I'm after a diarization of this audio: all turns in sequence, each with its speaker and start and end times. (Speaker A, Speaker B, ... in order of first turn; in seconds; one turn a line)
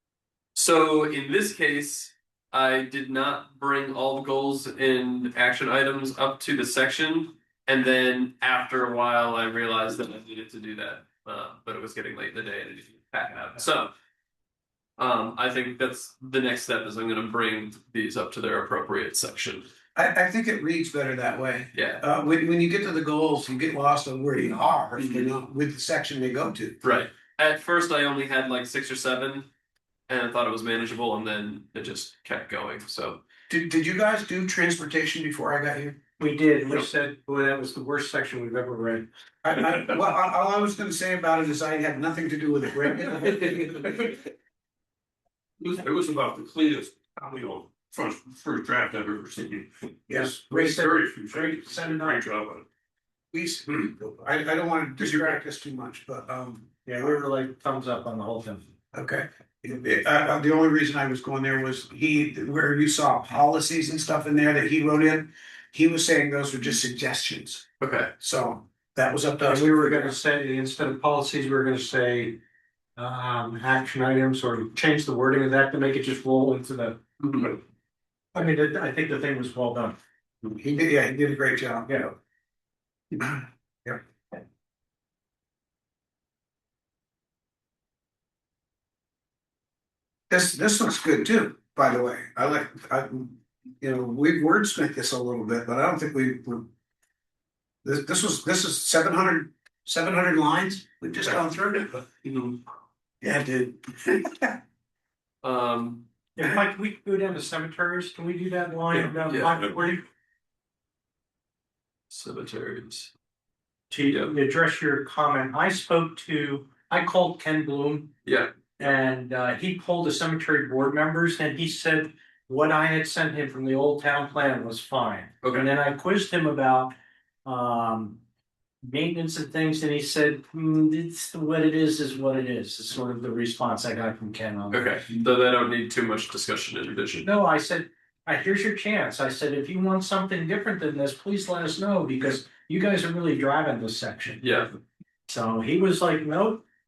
Speaker A: 0.5-13.9
Speaker A: 15.0-19.7
Speaker B: 19.9-26.8
Speaker A: 21.7-22.0
Speaker A: 25.0-25.2
Speaker A: 26.8-29.5
Speaker A: 30.1-33.2
Speaker B: 33.5-36.0
Speaker C: 36.2-39.1
Speaker B: 39.4-44.2
Speaker D: 45.6-49.7
Speaker B: 50.1-50.8
Speaker C: 50.1-52.2
Speaker D: 50.5-52.6
Speaker B: 53.3-57.2
Speaker C: 56.8-58.6
Speaker B: 58.9-67.6
Speaker A: 67.8-68.1
Speaker B: 68.2-70.1
Speaker C: 69.5-72.4
Speaker C: 73.0-77.0
Speaker A: 77.2-77.6
Speaker C: 78.3-80.0
Speaker B: 80.4-81.9
Speaker C: 81.9-82.1
Speaker B: 83.1-84.0
Speaker B: 90.3-96.7
Speaker B: 97.8-102.6
Speaker B: 103.2-104.6
Speaker A: 105.4-106.0
Speaker C: 106.3-110.0
Speaker A: 109.3-109.7
Speaker A: 112.1-113.1
Speaker C: 113.9-118.1
Speaker A: 118.2-118.5
Speaker C: 118.8-126.9
Speaker A: 125.4-125.7
Speaker C: 127.4-128.2
Speaker C: 128.8-135.0
Speaker A: 134.7-137.3
Speaker C: 137.2-144.4
Speaker A: 144.4-144.7
Speaker C: 145.3-146.6